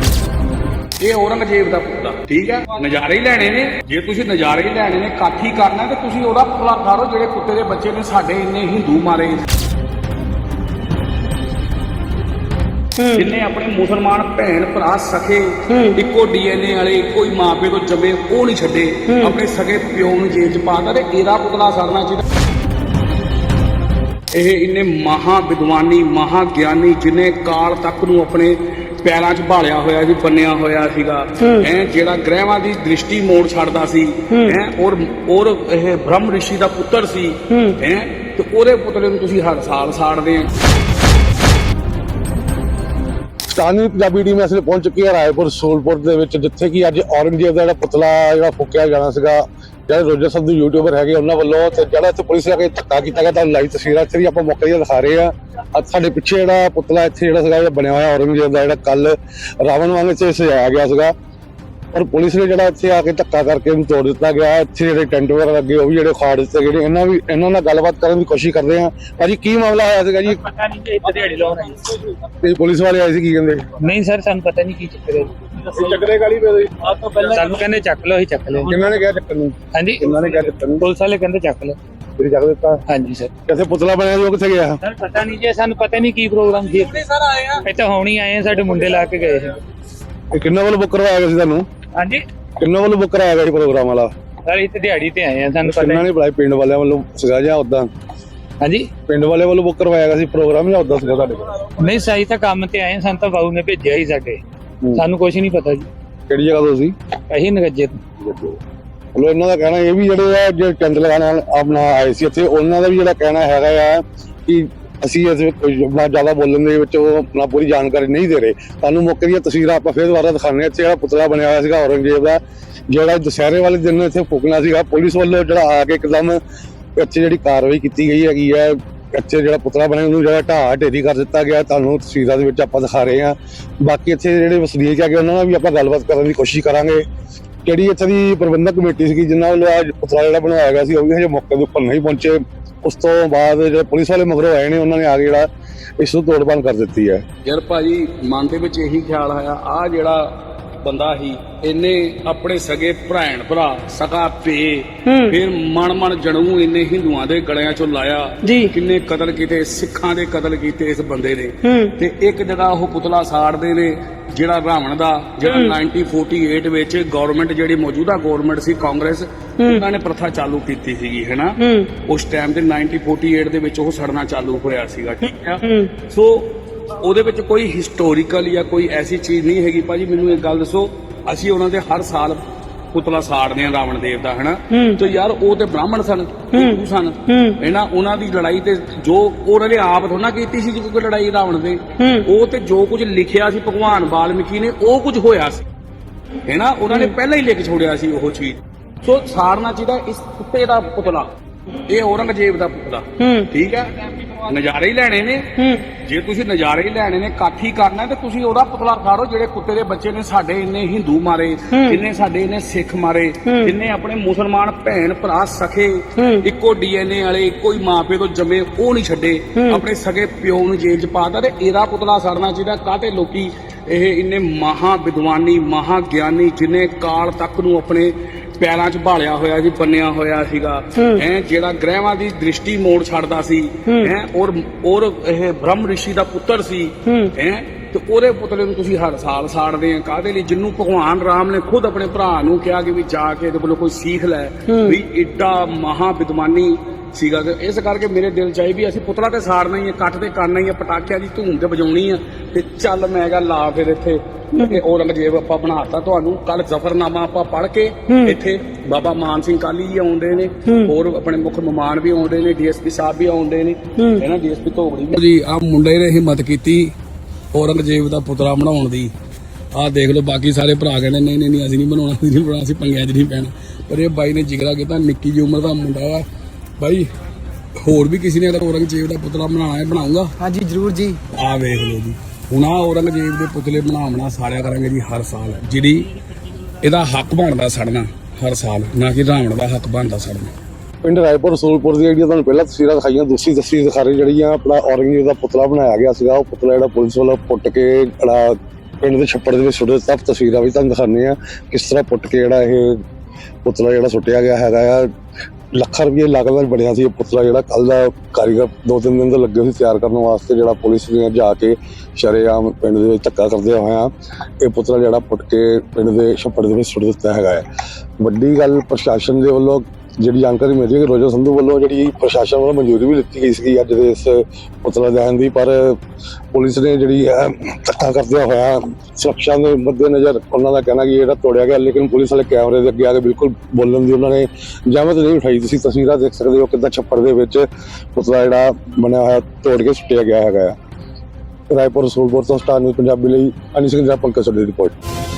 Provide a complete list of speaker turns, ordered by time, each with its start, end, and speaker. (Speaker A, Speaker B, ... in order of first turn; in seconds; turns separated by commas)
Speaker A: 1.0-9.4, Speaker B: 13.0-13.2, Speaker A: 13.1-22.2, Speaker B: 15.7-15.9, Speaker A: 24.3-40.5, Speaker B: 37.5-37.8, Speaker C: 43.5-61.1, Speaker C: 61.9-70.4, Speaker D: 70.3-71.8, Speaker C: 72.3-73.6, Speaker D: 73.8-75.5, Speaker C: 75.7-77.2, Speaker D: 77.0-78.7, Speaker C: 78.7-80.8, Speaker D: 79.7-81.8, Speaker C: 82.2-82.8, Speaker D: 82.9-83.3, Speaker C: 83.5-84.8, Speaker D: 84.8-89.6, Speaker C: 90.3-91.6, Speaker D: 92.0-92.2, Speaker C: 92.6-94.1, Speaker D: 94.5-96.0, Speaker C: 95.6-97.9, Speaker D: 98.6-98.9, Speaker C: 99.1-101.5, Speaker D: 101.8-104.4, Speaker D: 104.9-105.9, Speaker C: 106.3-106.9, Speaker D: 107.3-108.0, Speaker C: 108.2-108.6, Speaker C: 109.1-126.4, Speaker C: 127.0-137.0, Speaker C: 137.6-145.5, Speaker C: 146.0-147.2, Speaker A: 147.4-195.6, Speaker B: 155.1-155.3, Speaker B: 158.4-158.7, Speaker B: 161.6-161.9, Speaker B: 165.4-165.7, Speaker B: 171.6-171.9, Speaker B: 175.6-175.9, Speaker B: 184.7-185.0, Speaker B: 186.5-187.6, Speaker B: 192.0-192.2, Speaker A: 196.5-201.3, Speaker A: 201.9-266.9, Speaker B: 203.2-203.5, Speaker B: 205.6-205.8, Speaker B: 211.7-212.0, Speaker B: 213.4-213.7, Speaker B: 216.2-216.4, Speaker B: 237.1-237.3, Speaker B: 244.7-245.0, Speaker B: 258.1-258.3, Speaker B: 264.0-264.2, Speaker A: 267.5-269.1, Speaker A: 269.7-276.2, Speaker A: 276.8-277.1, Speaker A: 277.8-280.3, Speaker B: 280.5-280.9, Speaker A: 281.3-286.1, Speaker A: 286.8-290.5, Speaker C: 291.0-303.0, Speaker C: 303.6-305.1, Speaker C: 305.7-314.1, Speaker C: 314.6-317.6, Speaker C: 318.2-326.0, Speaker C: 326.5-340.7, Speaker C: 341.7-344.9